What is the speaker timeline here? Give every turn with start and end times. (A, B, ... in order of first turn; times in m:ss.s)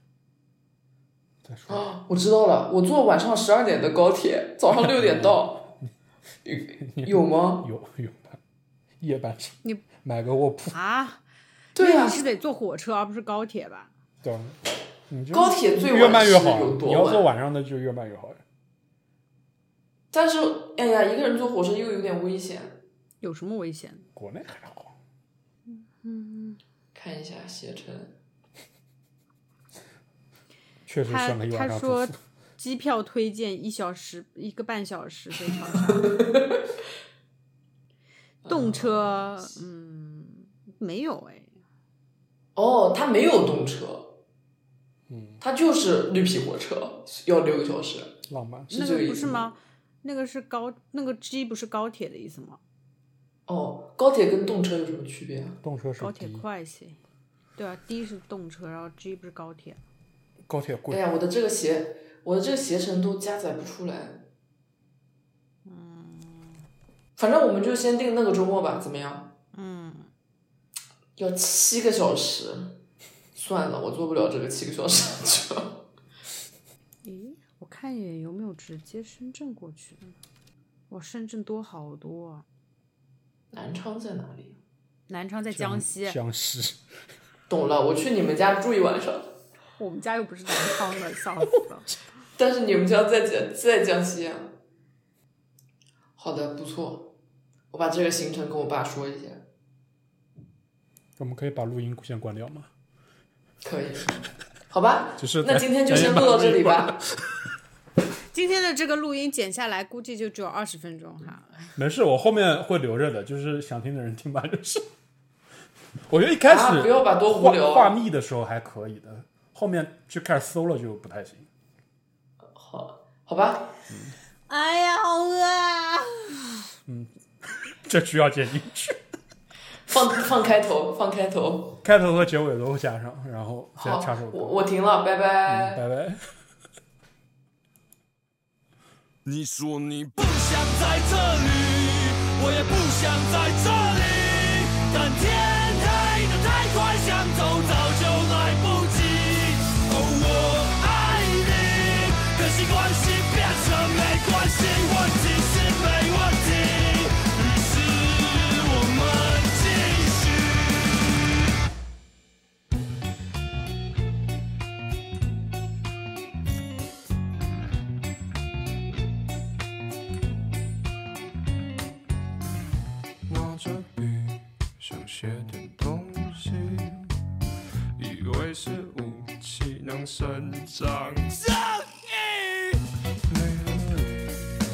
0:01.4-0:01.9 A
0:01.7-0:05.7 B
0:04.7-0:05.9 A
0:06.4-0:07.7 B
0:06.8-0:08.4 A
0:09.0-0:10.7 A
0:10.7-0:11.2 C
0:11.7-0:12.2 B
0:11.8-0:13.9 C
0:14.2-0:18.4 A
0:15.3-0:17.2 B
0:20.1-0:22.8 B
0:23.2-0:24.1 C
0:24.2-0:24.9 A
0:25.7-0:26.6 C
0:26.9-0:28.1 B
0:30.9-0:32.1 A
0:31.1-0:36.2 C
0:35.9-0:36.6 B
0:38.4-0:39.6 B
0:38.5-0:41.5 C
0:42.6-0:44.1 B
0:45.1-0:45.4 A
0:45.4-0:48.1 B
0:48.3-0:48.7 A
0:48.7-0:49.5 B
0:48.7-0:52.6 C
0:53.5-0:55.6 B
0:55.6-0:56.4 A
0:56.0-0:57.0 C
0:57.6-0:59.8 C
1:00.4-1:01.0 A
1:00.9-1:04.2 B
1:05.6-1:06.6 C
1:07.2-1:09.3 B
1:09.5-1:10.1 C
1:11.2-1:12.8 B
1:13.4-1:15.8 B
1:17.0-1:20.2 C
1:20.9-1:22.4 C
1:23.5-1:24.6 B
1:25.1-1:26.2 C
1:25.5-1:26.8 A
1:27.5-1:29.3 B
1:29.8-1:31.9 C
1:32.4-1:34.5 B
1:36.2-1:37.1 B
1:37.7-1:39.4 B
1:41.2-1:42.7 A
1:43.6-1:44.1 B
1:44.7-1:47.0 B
1:45.2-1:47.1 A
1:48.3-1:51.7 C
1:51.8-1:54.8 A
1:56.1-2:01.5 A
1:56.5-1:58.0 B
2:02.5-2:03.7 B
2:03.9-2:04.1 A
2:04.5-2:06.6 C
2:06.8-2:07.1 A
2:07.6-2:09.0 A
2:09.9-2:11.8 B
2:11.8-2:14.6 A
2:13.8-2:15.8 B
2:15.5-2:16.2 A
2:19.2-2:41.3 D
2:53.2-2:57.1 E
2:58.0-3:01.4 E
3:01.4-3:02.8 D
3:03.3-3:04.4 E